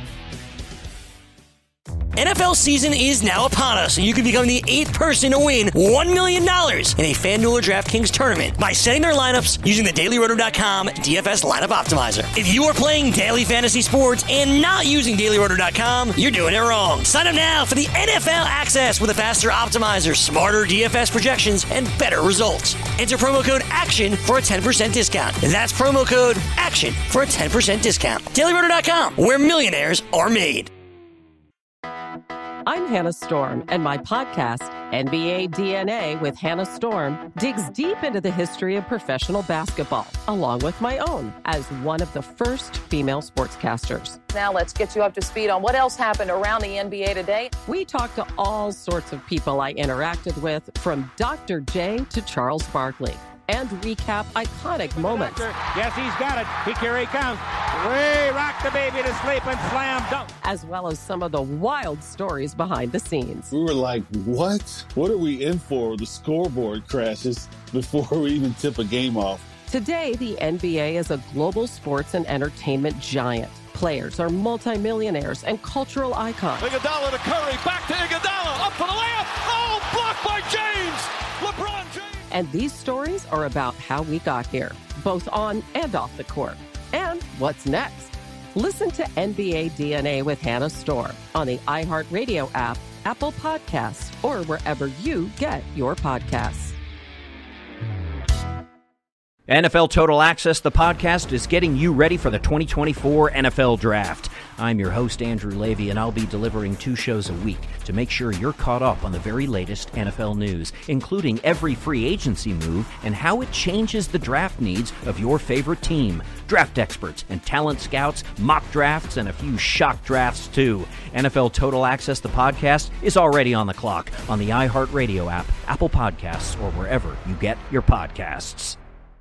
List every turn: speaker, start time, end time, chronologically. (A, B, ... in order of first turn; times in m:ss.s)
0:02.2-0:30.7 A
0:32.6-0:44.2 B
0:44.3-0:47.5 C
0:47.6-0:55.4 B
0:54.9-1:00.3 D
1:00.4-1:03.5 B
1:03.5-1:09.5 E
1:09.7-1:16.7 B
1:16.6-1:22.2 F
1:22.3-1:36.8 B
1:39.5-2:08.8 G